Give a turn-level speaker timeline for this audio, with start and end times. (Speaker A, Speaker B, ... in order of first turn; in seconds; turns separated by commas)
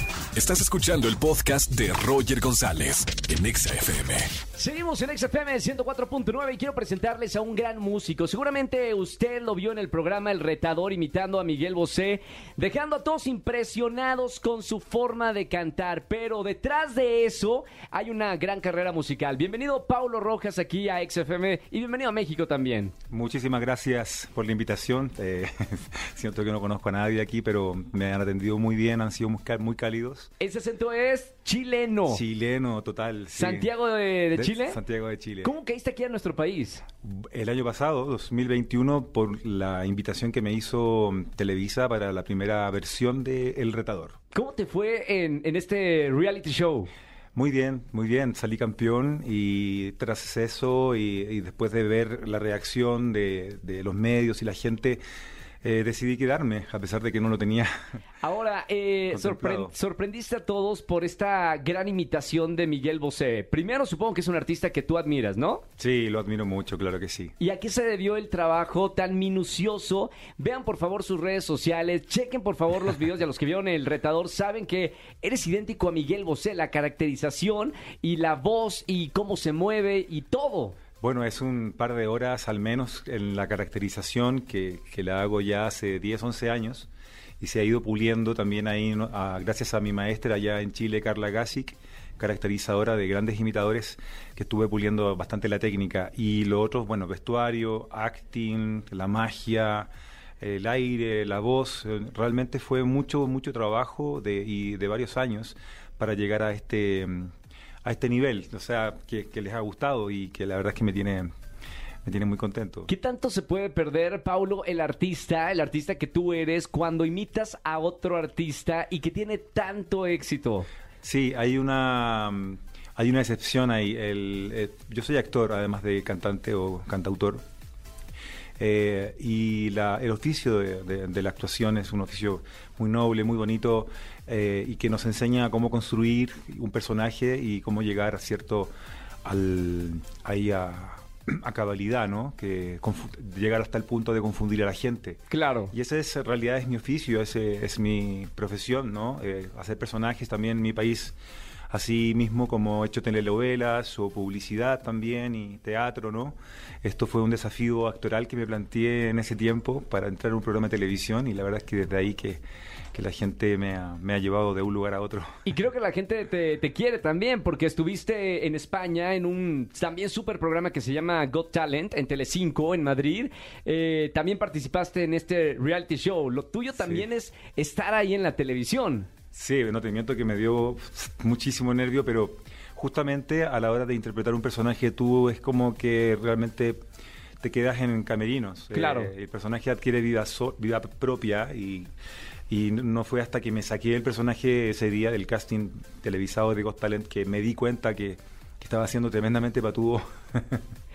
Speaker A: 0.3-4.3, Speaker B: 4.5-22.9, Speaker C: 23.1-30.3, Speaker B: 30.4-32.2, Speaker C: 32.1-33.7, Speaker B: 33.4-34.8, Speaker C: 34.4-35.5, Speaker B: 35.4-36.9, Speaker C: 37.0-44.2, Speaker B: 44.3-46.9, Speaker C: 47.3-55.0, Speaker C: 55.6-57.7, Speaker B: 58.2-65.6, Speaker C: 59.1-59.7, Speaker C: 65.8-67.3, Speaker B: 67.4-80.8, Speaker C: 81.0-86.9, Speaker C: 87.4-99.9, Speaker C: 100.4-107.3, Speaker C: 107.8-111.3, Speaker C: 112.0-112.9, Speaker B: 112.9-120.7, Speaker C: 121.0-127.4, Speaker C: 128.6-138.7, Speaker C: 139.2-145.2, Speaker B: 145.3-145.7, Speaker C: 145.7-151.2, Speaker C: 151.7-162.4, Speaker C: 162.9-165.4, Speaker B: 165.4-179.1, Speaker C: 176.8-177.1, Speaker C: 179.3-186.8, Speaker C: 187.4-191.9, Speaker B: 188.7-189.1, Speaker C: 192.5-200.6